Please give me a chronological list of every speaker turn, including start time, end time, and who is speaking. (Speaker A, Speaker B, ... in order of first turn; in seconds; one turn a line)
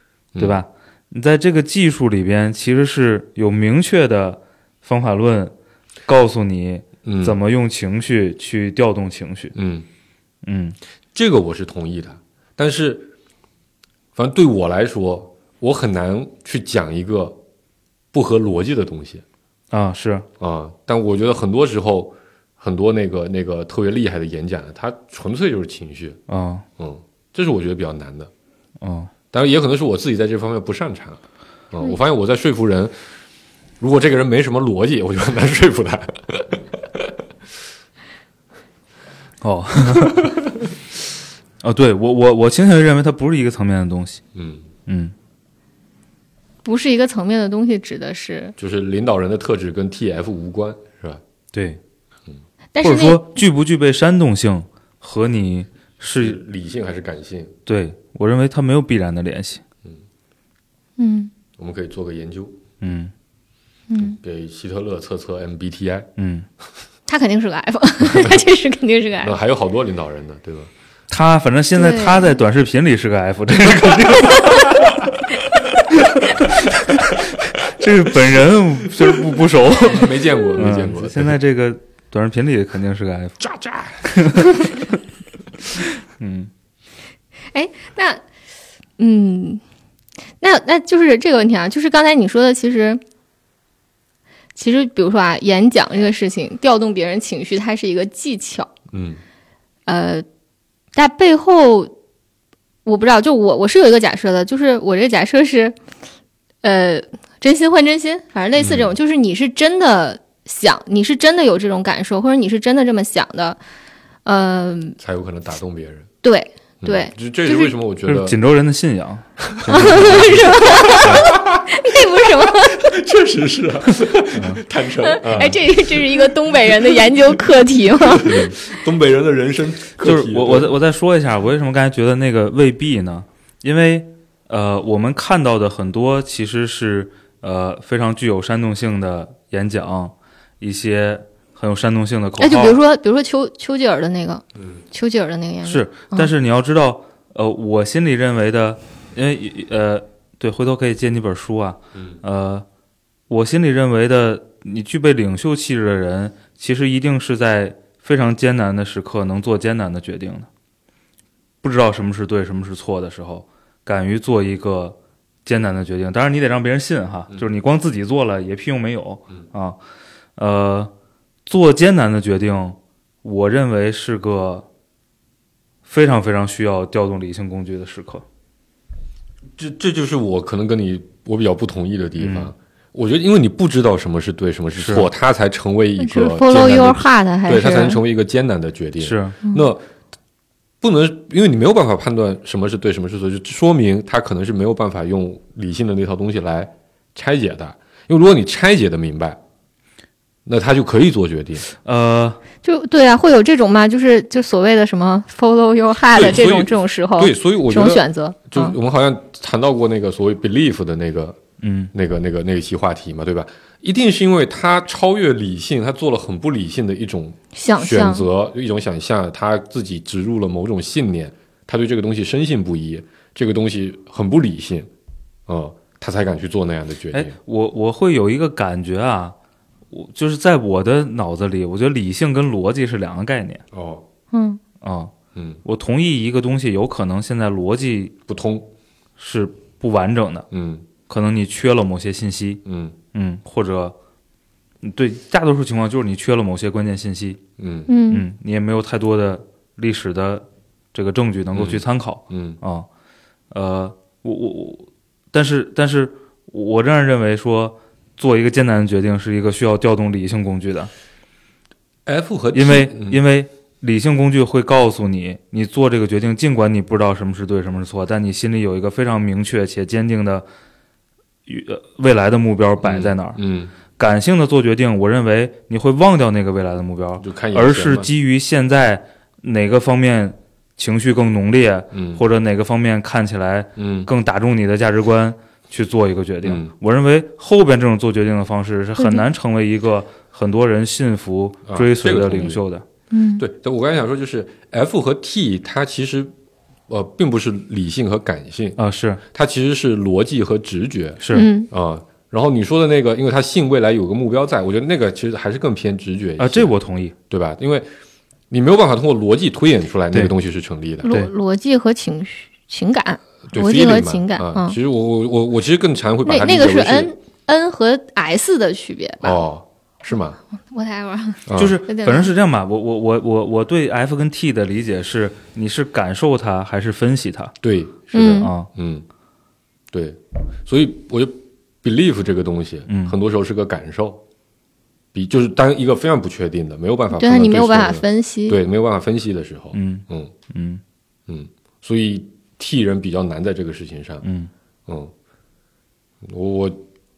Speaker A: 0.3-0.6
Speaker B: 0.4-5.5
Speaker B: 6.1-9.6
Speaker A: 7.0-7.4
Speaker A: 9.6-9.9
Speaker B: 10.4-10.8
Speaker A: 11.1-13.1
Speaker A: 14.2-17.4
Speaker A: 18.1-19.2
Speaker B: 19.7-20.3
Speaker A: 20.4-26.2
Speaker B: 26.3-26.6
Speaker A: 26.8-28.3
Speaker B: 28.8-29.1
Speaker A: 29.3-31.2
Speaker A: 31.7-32.9
Speaker A: 33.8-37.2
Speaker B: 39.4-40.3
Speaker A: 40.0-40.7
Speaker B: 41.6-44.2
Speaker A: 44.3-44.7
Speaker B: 44.9-45.1
Speaker C: 46.6-48.5
Speaker A: 48.6-51.2
Speaker B: 51.5-51.8
Speaker C: 52.7-53.4
Speaker B: 52.8-56.4
Speaker A: 56.2-57.5
Speaker B: 57.7-59.6
Speaker C: 61.0-61.3
Speaker A: 61.6-62.6
Speaker B: 62.8-63.1
Speaker C: 63.9-64.2
Speaker A: 64.0-66.1
Speaker B: 66.2-66.5
Speaker C: 67.1-69.4
Speaker A: 69.2-70.7
Speaker B: 71.1-75.1
Speaker C: 71.8-72.4
Speaker B: 75.7-83.4
Speaker A: 79.0-81.4
Speaker A: 83.4-84.1
Speaker B: 84.0-85.0
Speaker B: 85.7-86.5
Speaker C: 87.5-88.2
Speaker C: 89.0-89.6
Speaker C: 90.4-93.0
Speaker C: 94.5-98.7
Speaker A: 98.9-99.2
Speaker C: 99.9-100.2
Speaker C: 101.0-101.9
Speaker C: 102.8-105.8
Speaker C: 106.6-113.6
Speaker A: 108.6-108.9
Speaker C: 114.2-115.0
Speaker A: 115.0-116.1
Speaker C: 116.2-117.7
Speaker A: 116.8-118.4
Speaker B: 118.1-121.3
Speaker A: 119.5-126.3
Speaker C: 119.7-122.9
Speaker B: 124.3-124.6
Speaker C: 125.0-128.6
Speaker A: 128.0-130.8
Speaker B: 130.0-142.8
Speaker C: 142.4-146.3
Speaker B: 145.7-152.7
Speaker A: 151.9-152.2
Speaker B: 153.3-160.5
Speaker B: 161.6-169.8
Speaker B: 170.4-170.9
Speaker B: 171.5-174.7
Speaker B: 175.9-178.2
Speaker A: 179.6-189.8
Speaker B: 182.2-182.5
Speaker B: 184.8-185.1
Speaker C: 186.0-188.0
Speaker B: 189.0-189.4
Speaker A: 190.8-199.4
Speaker A: 200.5-201.7
Speaker B: 201.7-202.4
Speaker C: 202.6-208.8
Speaker A: 206.1-211.4
Speaker B: 211.6-211.9
Speaker A: 211.9-224.9
Speaker C: 217.6-218.3
Speaker A: 225.5-227.4
Speaker B: 227.1-229.3
Speaker B: 229.9-233.6
Speaker A: 233.7-234.1
Speaker C: 234.3-234.6
Speaker B: 234.8-235.1
Speaker A: 235.3-235.6
Speaker B: 235.7-238.2
Speaker A: 238.3-238.7
Speaker B: 239.2-240.5
Speaker A: 240.5-240.9
Speaker B: 241.1-242.6
Speaker A: 242.7-243.0
Speaker B: 243.1-243.9
Speaker B: 244.8-247.4
Speaker A: 247.6-247.9
Speaker C: 247.9-248.2
Speaker B: 248.1-252.9
Speaker A: 251.5-252.6
Speaker B: 253.5-260.9
Speaker A: 262.1-263.2
Speaker B: 262.5-270.5
Speaker B: 271.5-273.4
Speaker A: 272.8-273.7
Speaker B: 273.9-292.8
Speaker A: 277.2-278.1
Speaker A: 281.9-282.2
Speaker A: 283.8-284.1
Speaker A: 286.4-286.7
Speaker A: 291.7-292.6
Speaker C: 293.1-293.4
Speaker A: 293.4-296.3
Speaker A: 296.9-298.8
Speaker B: 298.8-299.2
Speaker A: 299.3-306.7
Speaker B: 301.2-301.5
Speaker C: 301.3-301.7
Speaker B: 306.4-307.1
Speaker A: 307.3-307.9
Speaker A: 308.5-311.2
Speaker C: 311.0-314.8
Speaker A: 313.5-317.1
Speaker C: 316.2-319.4
Speaker A: 319.2-320.4
Speaker C: 320.5-322.3
Speaker A: 321.5-321.8
Speaker B: 321.6-327.5
Speaker A: 327.6-329.1
Speaker C: 328.1-328.5
Speaker B: 328.4-328.7
Speaker A: 329.9-334.2
Speaker B: 332.9-333.2
Speaker A: 335.1-340.3
Speaker C: 337.1-338.6
Speaker B: 339.7-340.8
Speaker A: 341.3-344.2
Speaker B: 344.2-344.5
Speaker A: 344.9-345.1
Speaker A: 346.2-346.8